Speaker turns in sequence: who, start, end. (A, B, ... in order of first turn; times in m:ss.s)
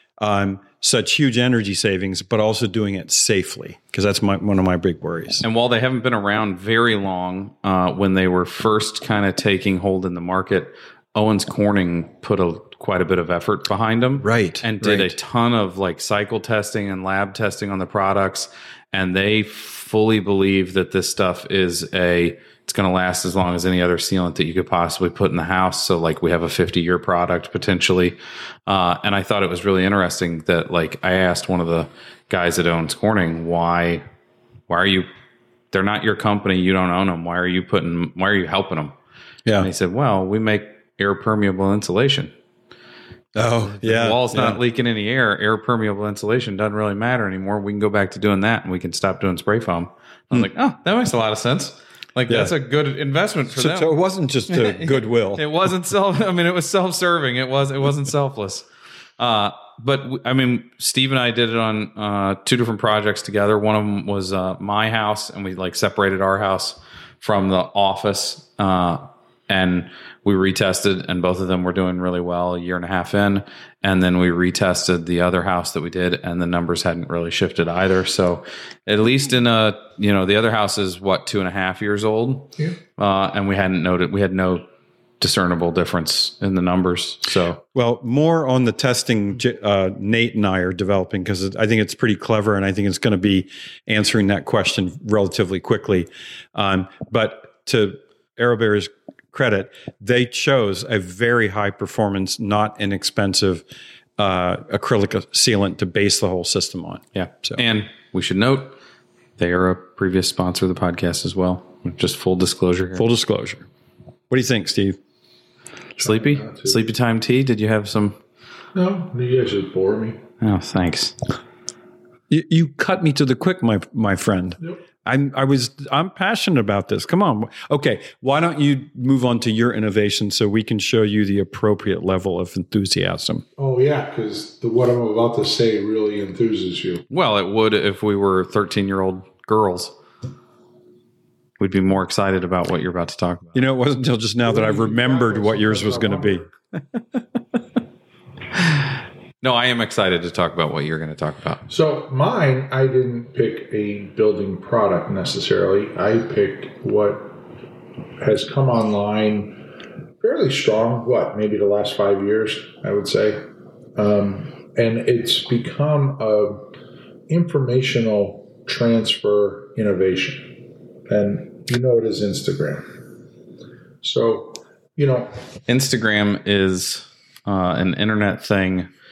0:00.2-0:05.4 A
0:05.4-0:34.0 B
0:14.2-0:15.1 A
0:34.7-0:35.1 B
0:35.7-0:38.9 B
0:39.6-0:42.3 B
0:43.4-0:44.6 A
0:43.8-0:53.9 B
0:53.5-0:55.5 A
0:54.5-0:58.7 B
0:59.2-1:24.7 B
1:25.2-1:27.6 B
1:27.8-1:43.6 A
1:44.2-1:47.6 A
1:47.2-1:48.8 B
1:49.4-1:53.1 B
1:53.0-1:53.7 A
1:54.3-1:55.0 A
1:56.0-1:56.8 C
1:56.0-1:58.2 B
1:58.7-2:00.2 C
2:00.4-2:01.2 B
2:02.3-2:13.4 A
2:13.6-2:17.1 C
2:17.1-2:20.0 B
2:21.6-2:23.6 B
2:23.6-2:26.4 A
2:24.4-2:26.5 C
2:29.4-2:31.6 B
2:31.7-2:37.4 C
2:38.2-2:39.6 C
2:40.2-2:43.4 C
2:44.0-2:46.7 C
2:47.3-2:52.9 C
2:54.0-2:55.3 C
2:55.7-2:58.9 B